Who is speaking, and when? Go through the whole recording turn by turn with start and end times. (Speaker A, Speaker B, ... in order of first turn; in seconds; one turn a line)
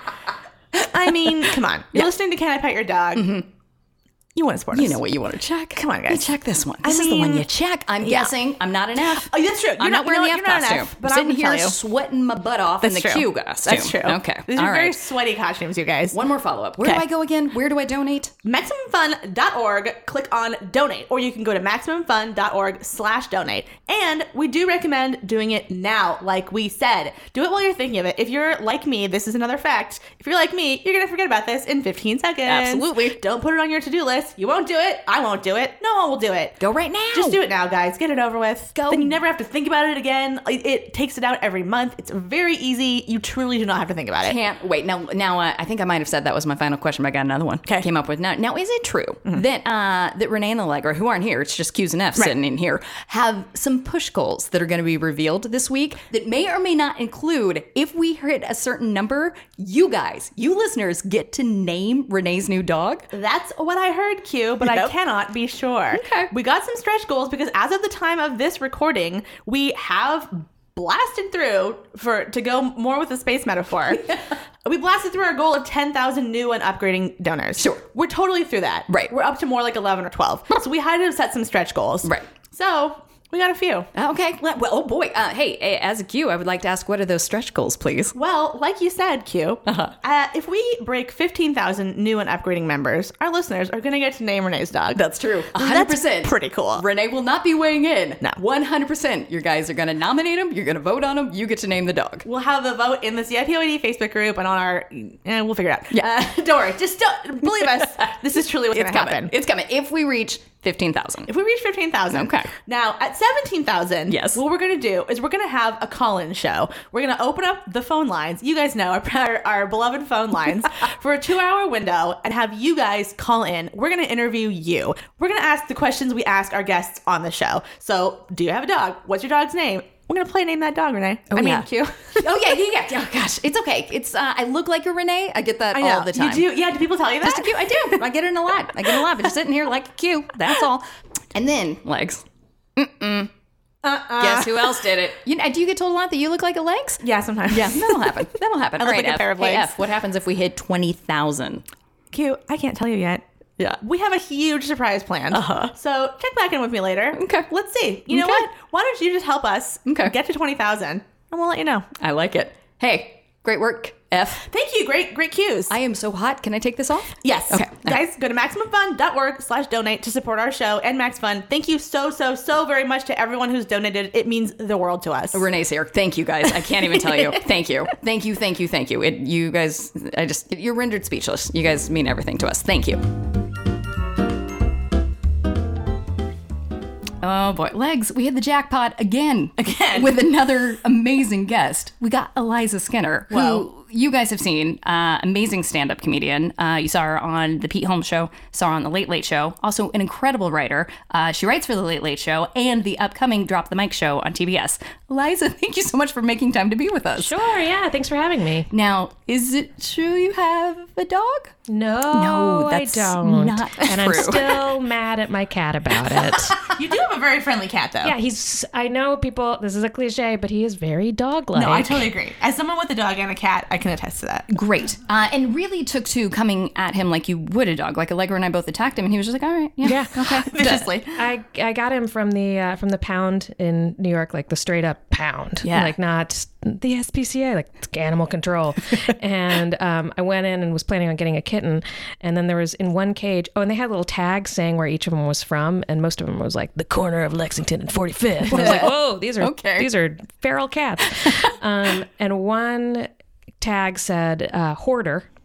Speaker A: 0.8-2.1
Speaker B: 0.8-3.3
Speaker A: 3.1-3.5
Speaker B: 4.3-5.0
Speaker A: 4.7-15.0
Speaker B: 5.8-6.3
Speaker B: 6.8-7.5
Speaker B: 8.0-8.3
Speaker B: 9.2-11.7
Speaker B: 12.8-16.2
Speaker A: 16.1-18.3
Speaker B: 18.4-36.6
Speaker A: 32.5-33.2
Speaker A: 36.6-37.4
Speaker B: 37.1-44.4
Speaker A: 38.7-39.2
Speaker A: 44.2-63.1
Speaker B: 63.1-74.1
Speaker A: 65.9-66.3
Speaker A: 73.9-74.2
Speaker B: 74.6-83.9
Speaker A: 77.6-77.8
Speaker A: 83.9-88.1
Speaker B: 88.1-95.0
Speaker A: 89.7-89.9
Speaker A: 94.9-102.2
Speaker B: 95.5-96.8
Speaker B: 102.2-109.3
Speaker A: 107.4-111.3
Speaker B: 111.3-132.3
Speaker A: 112.1-112.5
Speaker A: 114.1-114.4
Speaker A: 131.3-136.5
Speaker B: 135.7-138.0
Speaker A: 137.2-142.2
Speaker A: 142.8-143.3
Speaker B: 143.8-144.8
Speaker A: 144.2-151.6
Speaker B: 147.0-148.2
Speaker B: 148.8-149.7
Speaker B: 152.1-153.2
Speaker B: 153.8-161.9
Speaker A: 155.3-155.7
Speaker A: 157.1-157.5
Speaker A: 158.1-158.5
Speaker A: 159.9-160.1
Speaker A: 162.0-164.4
Speaker B: 164.5-165.8
Speaker A: 165.7-168.0
Speaker B: 167.2-175.4
Speaker A: 175.3-183.0
Speaker B: 176.9-177.3
Speaker A: 187.2-207.3
Speaker B: 189.6-190.1
Speaker B: 193.3-193.7
Speaker C: 207.2-208.7
Speaker A: 208.7-211.5
Speaker C: 211.7-216.7
Speaker A: 212.1-214.6
Speaker B: 216.7-218.1
Speaker C: 218.0-222.1
Speaker B: 221.5-224.5
Speaker A: 224.5-230.9
Speaker C: 229.8-230.2
Speaker B: 230.5-231.2
Speaker C: 231.1-253.1
Speaker A: 235.6-235.9
Speaker A: 248.5-249.9
Speaker B: 248.6-248.9
Speaker C: 253.6-255.3